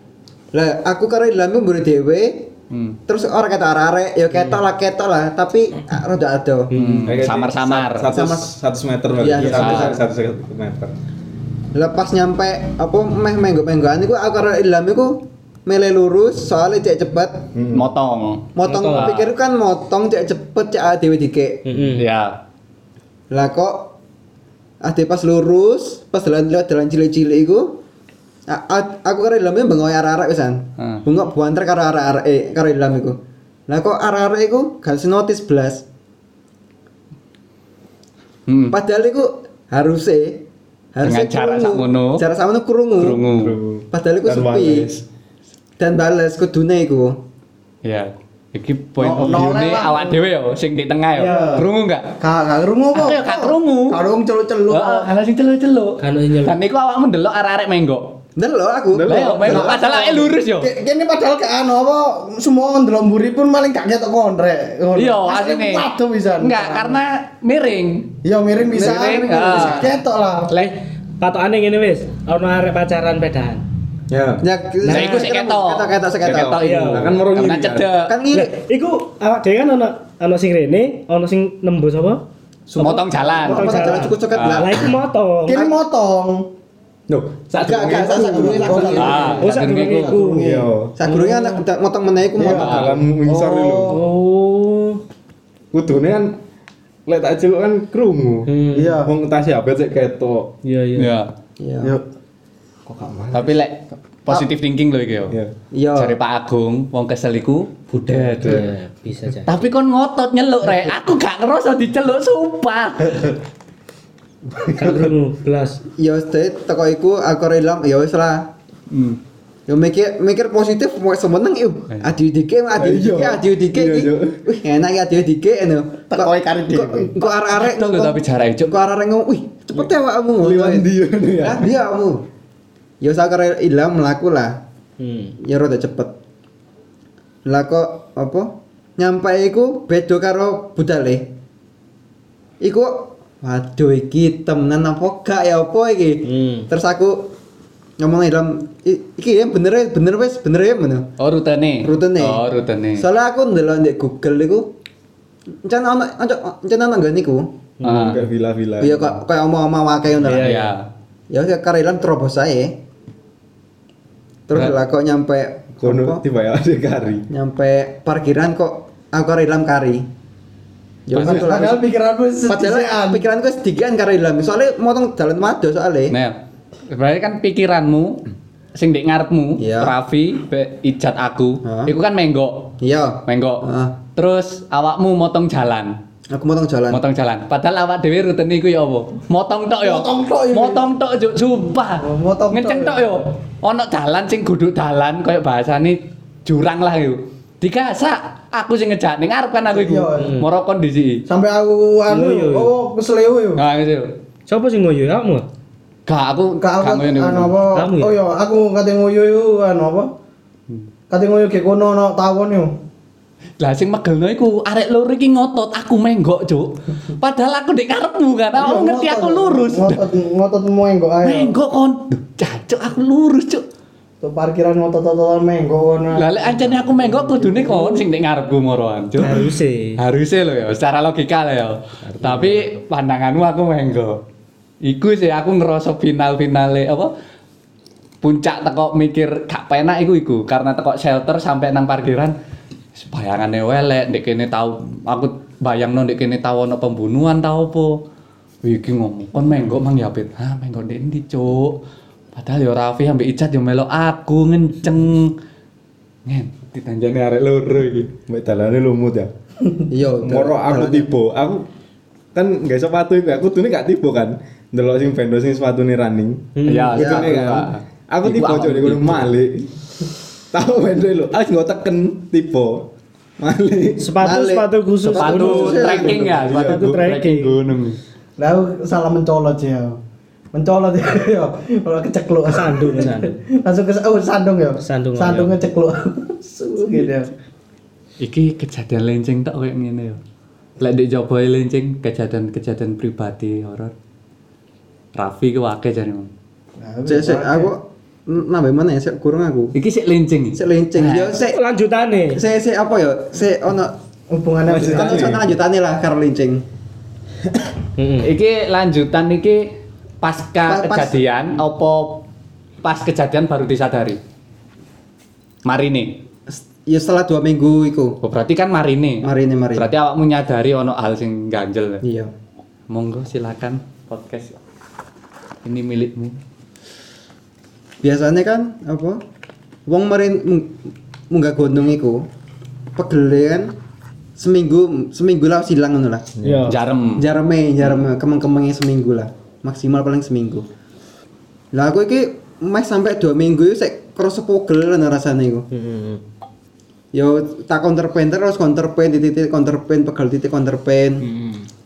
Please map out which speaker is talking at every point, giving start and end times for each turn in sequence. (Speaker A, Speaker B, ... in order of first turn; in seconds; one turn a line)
Speaker A: 0.5-2.5
Speaker B: 2.7-3.0
Speaker A: 3.1-6.7
Speaker C: 6.7-7.1
Speaker B: 6.7-8.1
Speaker D: 7.0-10.9
Speaker A: 8.1-8.5
Speaker A: 9.2-10.0
Speaker B: 9.6-9.9
Speaker A: 11.8-17.5
Speaker D: 17.6-17.9
Speaker B: 17.7-19.3
Speaker A: 18.6-21.6
Speaker C: 18.6-19.2
Speaker C: 21.7-22.1
Speaker B: 22.0-22.4
Speaker A: 23.3-23.9
Speaker A: 24.8-27.8
Speaker A: 28.5-35.8
Speaker B: 30.8-31.1
Speaker B: 38.5-38.8
Speaker A: 38.7-43.2
Speaker B: 41.0-42.2
Speaker B: 43.0-43.5
Speaker D: 43.3-45.0
Speaker A: 43.9-44.9
Speaker A: 45.8-47.2
Speaker B: 47.9-52.1
Speaker E: 49.0-50.2
Speaker E: 51.2-51.7
Speaker E: 52.2-55.1
Speaker B: 52.9-54.0
Speaker B: 54.7-58.2
Speaker C: 56.0-56.6
Speaker A: 58.4-59.5
Speaker D: 58.9-59.7
Speaker B: 59.0-60.7
Speaker E: 59.4-67.0
Speaker B: 65.0-68.1
Speaker E: 68.2-70.5
Speaker A: 68.7-69.9
Speaker B: 68.7-70.0
Speaker C: 71.2-73.6
Speaker D: 74.1-74.5
Speaker A: 74.4-76.6
Speaker B: 74.9-78.2
Speaker C: 74.9-75.2
Speaker D: 76.2-78.0
Speaker C: 76.6-77.2
Speaker A: 78.1-78.5
Speaker C: 78.3-82.2
Speaker E: 82.7-84.0
Speaker B: 82.8-84.8
Speaker A: 83.4-84.9
Speaker C: 83.5-85.7
Speaker E: 85.5-86.5
Speaker D: 87.1-88.9
Speaker A: 87.6-89.4
Speaker E: 87.7-90.7
Speaker C: 88.5-90.5
Speaker B: 88.9-90.2
Speaker D: 90.4-91.0
Speaker A: 91.0-92.9
Speaker C: 91.1-91.6
Speaker E: 92.4-94.0
Speaker D: 92.5-94.0
Speaker B: 92.5-93.0
Speaker C: 93.9-95.0
Speaker D: 95.7-96.4
Speaker D: 97.1-100.5
Speaker C: 98.5-99.0
Speaker E: 98.7-99.1
Speaker C: 100.6-101.1
Speaker B: 101.0-101.3
Speaker A: 101.6-102.0
Speaker D: 102.9-103.6
Speaker B: 103.3-105.4
Speaker A: 105.7-106.2
Speaker B: 106.0-108.7
Speaker C: 108.0-109.7
Speaker D: 108.4-108.7
Speaker B: 109.5-113.4
Speaker D: 114.7-115.0
Speaker C: 114.8-115.8
Speaker A: 116.0-118.5
Speaker B: 118.9-119.2
Speaker A: 119.7-132.2
Speaker D: 122.8-124.4
Speaker E: 126.1-127.1
Speaker B: 127.5-128.7
Speaker D: 130.4-131.7
Speaker A: 133.0-134.6
Speaker C: 135.0-135.4
Speaker A: 135.4-136.1
Speaker A: 137.5-141.3
Speaker A: 142.6-147.2
Speaker C: 146.2-146.7
Speaker A: 148.0-151.1
Speaker B: 151.2-153.1
Speaker A: 151.8-152.4
Speaker A: 153.0-154.7
Speaker A: 155.6-157.5
Speaker D: 157.8-159.2
Speaker B: 157.8-158.2
Speaker A: 158.8-160.7
Speaker B: 160.2-160.8
Speaker A: 161.3-162.8
Speaker A: 164.5-166.2
Speaker D: 165.8-167.3
Speaker A: 167.3-170.1
Speaker A: 171.1-171.9
Speaker B: 171.1-171.6
Speaker E: 171.2-173.2
Speaker A: 172.5-176.2
Speaker B: 176.9-178.2
Speaker B: 178.8-182.7
Speaker A: 179.6-179.9
Speaker A: 181.6-181.9
Speaker A: 182.8-184.0
Speaker B: 183.3-186.0
Speaker A: 186.3-187.0
Speaker B: 186.9-201.2
Speaker E: 189.8-190.8
Speaker E: 192.0-193.1
Speaker E: 199.7-200.3
Speaker C: 200.2-200.4
Speaker E: 201.3-203.6
Speaker C: 202.1-202.7
Speaker B: 203.6-204.1
Speaker C: 204.5-205.5
Speaker B: 206.1-207.6
Speaker E: 206.6-210.1
Speaker C: 207.8-208.2
Speaker E: 211.1-212.8
Speaker B: 213.6-220.1
Speaker E: 218.6-221.5
Speaker B: 221.2-223.6
Speaker E: 224.2-228.0
Speaker B: 226.2-229.4
Speaker C: 229.2-230.0
Speaker B: 230.0-234.2
Speaker D: 232.1-232.8
Speaker B: 234.8-237.1
Speaker B: 238.2-242.3
Speaker B: 242.9-248.0
Speaker B: 248.6-251.8
Speaker B: 252.3-255.3
Speaker B: 256.3-257.2
Speaker D: 257.1-259.3
Speaker A: 259.9-261.1
Speaker D: 260.2-261.7
Speaker D: 262.3-269.8
Speaker C: 266.6-267.4
Speaker B: 266.6-269.3
Speaker D: 270.5-272.9
Speaker D: 273.4-274.1
Speaker C: 274.0-277.5
Speaker A: 274.2-276.4
Speaker B: 275.1-278.0
Speaker E: 275.3-276.3
Speaker D: 276.4-277.1
Speaker E: 278.4-280.0
Speaker E: 280.5-287.3
Speaker C: 282.5-283.4
Speaker C: 284.8-285.6
Speaker B: 288.2-290.2
Speaker B: 290.8-293.9
Speaker B: 295.2-296.3
Speaker E: 296.8-297.7
Speaker A: 297.1-299.7
Speaker B: 299.8-301.4
Speaker A: 300.5-301.6
Speaker C: 301.5-302.4
Speaker A: 302.3-303.9
Speaker E: 304.3-305.4
Speaker C: 304.7-305.3
Speaker A: 304.8-306.6
Speaker C: 308.0-308.3
Speaker B: 308.2-309.7
Speaker B: 310.2-312.2
Speaker A: 310.7-311.2
Speaker B: 312.8-314.2
Speaker B: 315.7-316.2
Speaker A: 316.5-318.2
Speaker B: 318.2-322.0
Speaker A: 319.2-319.9
Speaker A: 322.0-322.3
Speaker B: 322.9-324.6
Speaker B: 325.6-326.4
Speaker A: 328.0-329.2
Speaker A: 329.9-332.2
Speaker A: 333.0-333.7
Speaker A: 334.4-336.3
Speaker D: 336.4-336.7
Speaker C: 336.4-336.8
Speaker B: 336.7-337.2
Speaker A: 337.2-340.7
Speaker A: 341.7-345.7
Speaker C: 345.7-346.2
Speaker A: 347.1-351.3
Speaker C: 351.2-351.6